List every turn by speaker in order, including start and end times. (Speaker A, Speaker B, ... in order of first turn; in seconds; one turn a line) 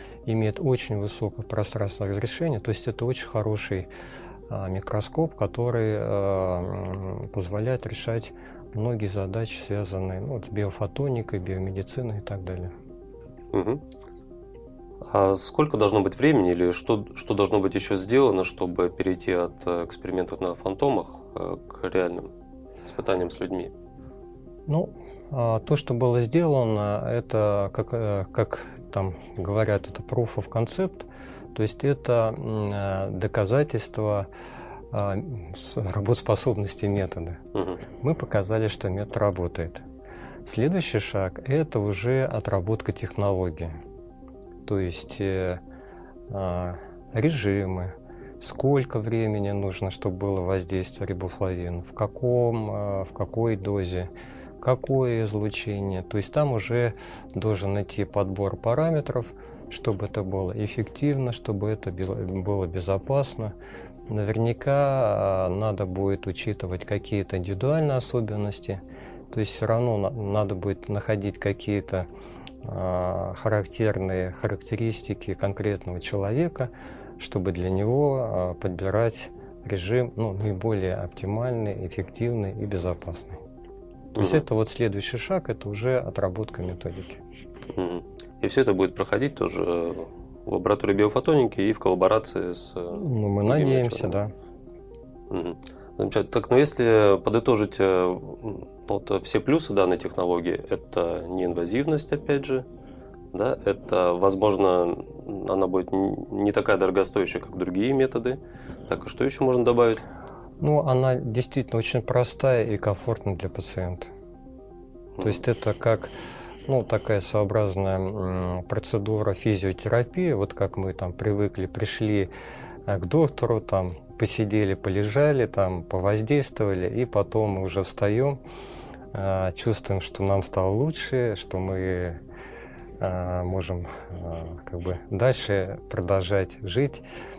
Speaker A: 0.2-3.9
Speaker A: 4.5-12.7
Speaker B: 13.5-13.8
Speaker B: 15.1-22.3
Speaker B: 22.9-23.7
Speaker A: 24.7-34.3
Speaker A: 34.9-37.4
Speaker B: 37.5-37.8
Speaker A: 38.0-39.8
Speaker A: 40.5-43.8
Speaker A: 44.6-45.6
Speaker A: 46.3-63.5
Speaker A: 64.1-72.1
Speaker A: 72.6-83.4
Speaker B: 84.1-84.5
Speaker A: 84.1-87.2
Speaker B: 87.8-94.2
Speaker A: 92.9-94.3
Speaker B: 95.3-102.6
Speaker B: 103.3-110.0
Speaker A: 110.6-114.1
Speaker A: 115.2-116.1
Speaker A: 116.7-122.3
Speaker A: 122.9-128.4
Speaker A: 129.1-132.2
Speaker A: 133.0-137.0